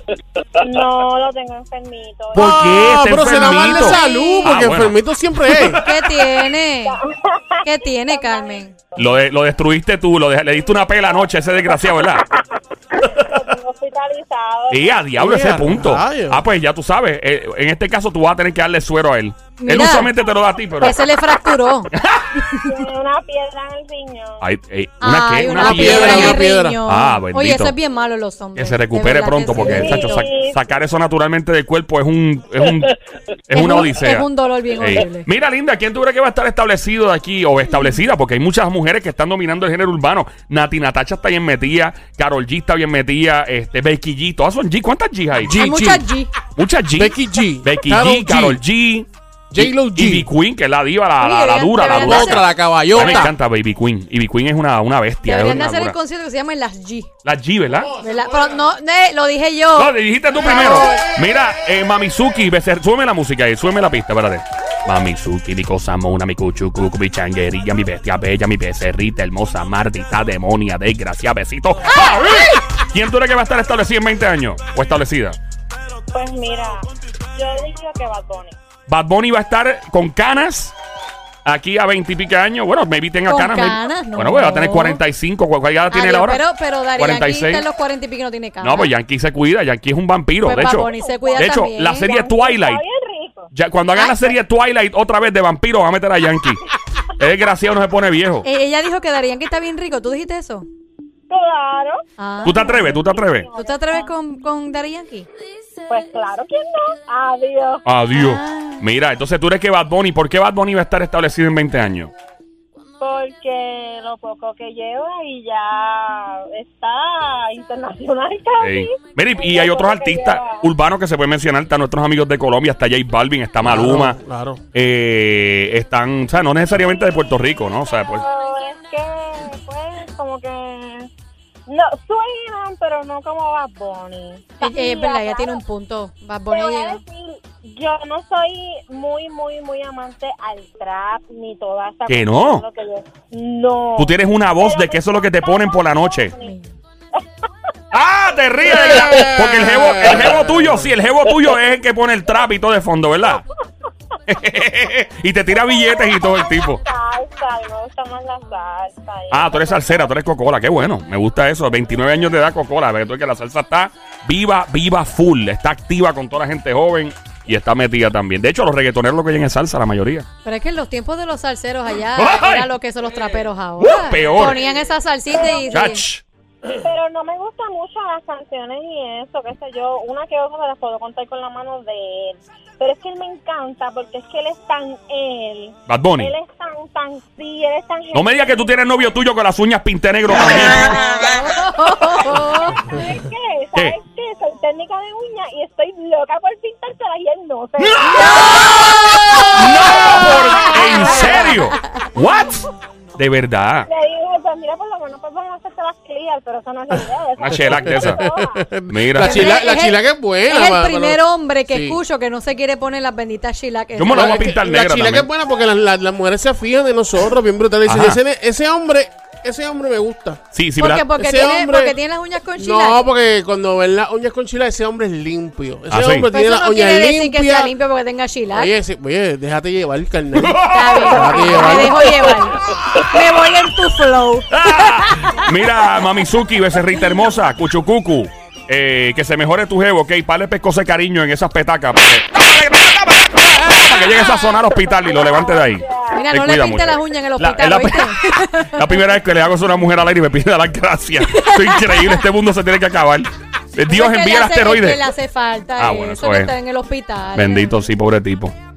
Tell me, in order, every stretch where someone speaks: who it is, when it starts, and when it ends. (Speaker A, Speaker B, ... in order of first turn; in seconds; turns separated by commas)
Speaker A: 0.6-2.6, Speaker B: 2.3-6.2, Speaker C: 2.3-5.8, Speaker D: 3.5-4.5, Speaker D: 5.8-7.0, Speaker A: 6.8-9.0, Speaker D: 7.6-8.7, Speaker B: 8.9-12.2, Speaker A: 13.0-15.0, Speaker B: 14.7-21.0, Speaker C: 15.2-16.4, Speaker D: 19.6-20.1, Speaker D: 20.8-22.7, Speaker B: 21.9-22.3, Speaker A: 22.6-24.4, Speaker B: 24.4-27.7, Speaker D: 25.0-30.2, Speaker C: 25.6-26.8, Speaker B: 28.6-32.9, Speaker A: 29.6-30.6, Speaker B: 33.5-45.5, Speaker D: 33.5-35.3, Speaker C: 45.4-46.0, Speaker D: 45.5-46.3, Speaker B: 46.5-56.0, Speaker C: 47.0-48.6, Speaker C: 49.5-50.3, Speaker D: 51.2-52.5, Speaker C: 51.8-53.3, Speaker D: 53.0-53.2, Speaker D: 55.2-57.1, Speaker B: 57.2-57.9, Speaker C: 57.7-58.6, Speaker D: 58.0-59.9, Speaker B: 59.8-75.4, Speaker C: 60.3-61.2, Speaker A: 76.1-78.5, Speaker B: 78.9-80.7, Speaker B: 81.4-86.4, Speaker D: 83.2-85.0, Speaker D: 85.9-88.9, Speaker B: 87.0-87.6, Speaker B: 88.6-92.8, Speaker D: 90.4-92.1, Speaker A: 90.5-93.5, Speaker B: 93.5-98.5, Speaker D: 93.9-94.3, Speaker D: 98.4-100.7, Speaker A: 101.3-102.0, Speaker D: 102.2-103.0, Speaker B: 102.4-103.5, Speaker A: 103.0-104.1, Speaker D: 103.5-105.3, Speaker A: 105.9-107.8, Speaker B: 107.8-112.1, Speaker D: 108.1-108.8, Speaker A: 113.0-120.6, Speaker B: 118.6-124.2, Speaker C: 123.6-124.6, Speaker B: 124.7-128.2, Speaker A: 128.1-131.1, Speaker A: 131.7-135.6, Speaker D: 134.6-137.0, Speaker A: 136.5-146.5, Speaker B: 142.1-142.6, Speaker B: 144.0-146.3, Speaker D: 146.4-146.7, Speaker B: 147.9-153.4, Speaker C: 149.0-150.0, Speaker B: 154.3-156.8, Speaker A: 155.5-160.1, Speaker B: 159.3-170.3, Speaker D: 170.4-176.0, Speaker B: 172.2-172.7, Speaker B: 173.8-174.6, Speaker A: 175.3-175.6, Speaker B: 175.7-176.2, Speaker A: 176.7-189.1, Speaker B: 185.9-186.3, Speaker B: 188.1-191.0, Speaker D: 190.6-192.9, Speaker A: 192.8-199.4, Speaker B: 197.9-198.8, Speaker B: 199.5-203.9, Speaker A: 200.0-201.6, Speaker D: 200.8-201.8, Speaker A: 203.9-208.7, Speaker B: 207.4-208.2, Speaker C: 207.5-212.0, Speaker B: 208.9-209.6, Speaker D: 209.2-214.4, Speaker B: 213.9-215.3, Speaker C: 214.1-220.4, Speaker B: 217.8-218.2, Speaker B: 220.5-221.1, Speaker D: 220.8-223.0, Speaker C: 221.1-221.9, Speaker C: 222.6-227.7, Speaker B: 225.9-226.3, Speaker D: 226.3-228.7, Speaker C: 228.5-232.3, Speaker B: 230.3-231.7, Speaker D: 230.7-235.4, Speaker B: 234.5-248.1, Speaker A: 244.7-246.2, Speaker D: 246.1-249.0, Speaker B: 248.7-255.0, Speaker D: 251.3-252.2, Speaker D: 253.9-257.8, Speaker B: 255.8-256.5, Speaker B: 257.3-258.5